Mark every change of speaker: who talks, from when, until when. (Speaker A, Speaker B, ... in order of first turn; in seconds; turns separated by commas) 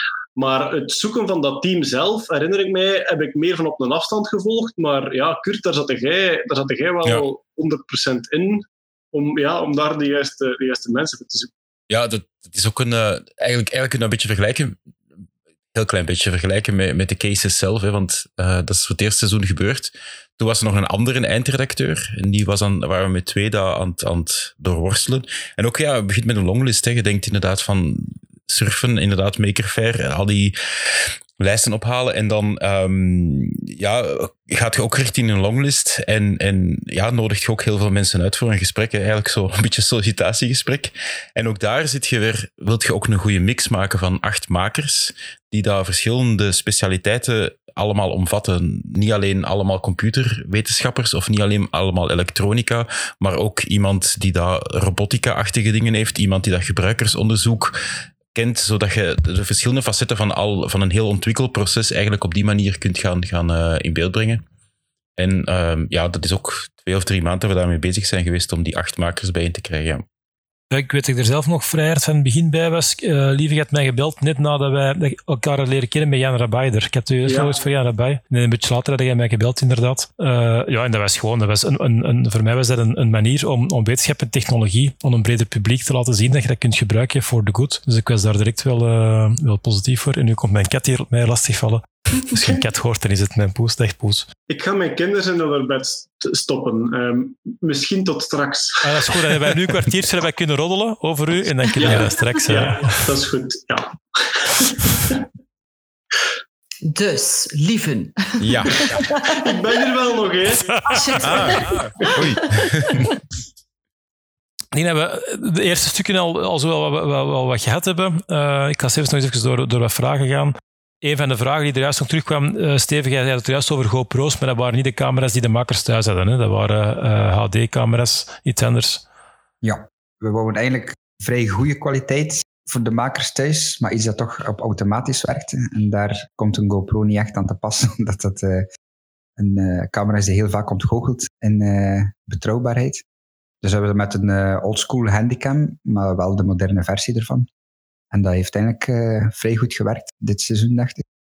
Speaker A: 0.3-11.5, Speaker B: 11.9-14.8, Speaker B: 15.7-30.5, Speaker B: 31.4-57.7, Speaker B: 58.3-64.4, Speaker B: 65.2-70.0, Speaker C: 70.7-94.3, Speaker A: 77.2-77.6, Speaker A: 94.5-99.5, Speaker C: 98.8-103.1, Speaker A: 101.7-105.2, Speaker D: 106.8-109.4, Speaker B: 108.4-108.8, Speaker A: 108.8-111.5, Speaker D: 110.9-113.1, Speaker B: 111.3-113.1, Speaker C: 114.7-129.0, Speaker E: 129.6-138.7, Speaker E: 139.4-143.0, Speaker E: 143.6-147.5, Speaker E: 148.1-151.0